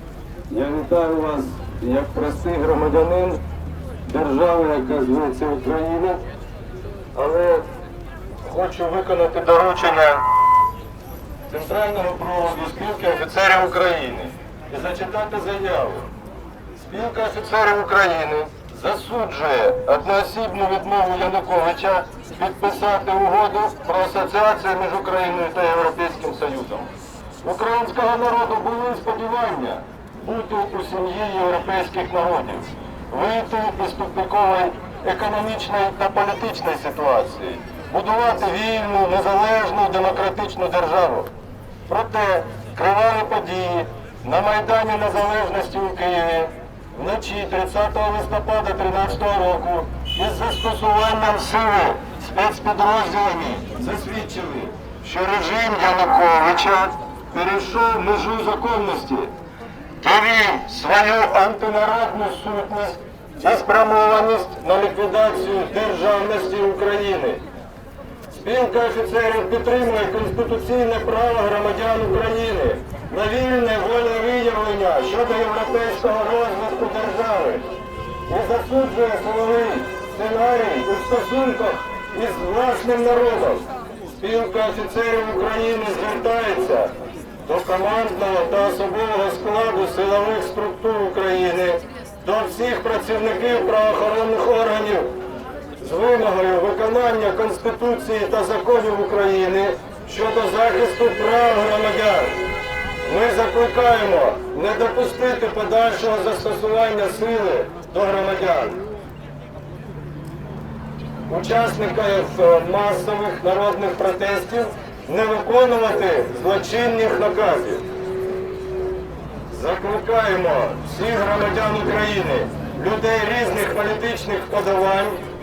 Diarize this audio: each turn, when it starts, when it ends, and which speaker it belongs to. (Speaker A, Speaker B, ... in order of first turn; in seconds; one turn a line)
Speaker A: 0.5-3.4
Speaker A: 4.0-6.2
Speaker A: 7.2-7.7
Speaker A: 8.4-10.2
Speaker A: 11.5-16.1
Speaker A: 16.8-26.9
Speaker A: 27.4-41.3
Speaker A: 41.9-59.3
Speaker A: 60.0-67.4
Speaker A: 68.3-77.7
Speaker A: 78.3-83.7
Speaker A: 84.2-86.9
Speaker A: 87.5-95.2
Speaker A: 95.8-102.4
Speaker A: 103.0-108.8
Speaker A: 111.3-117.8
Speaker A: 119.5-125.2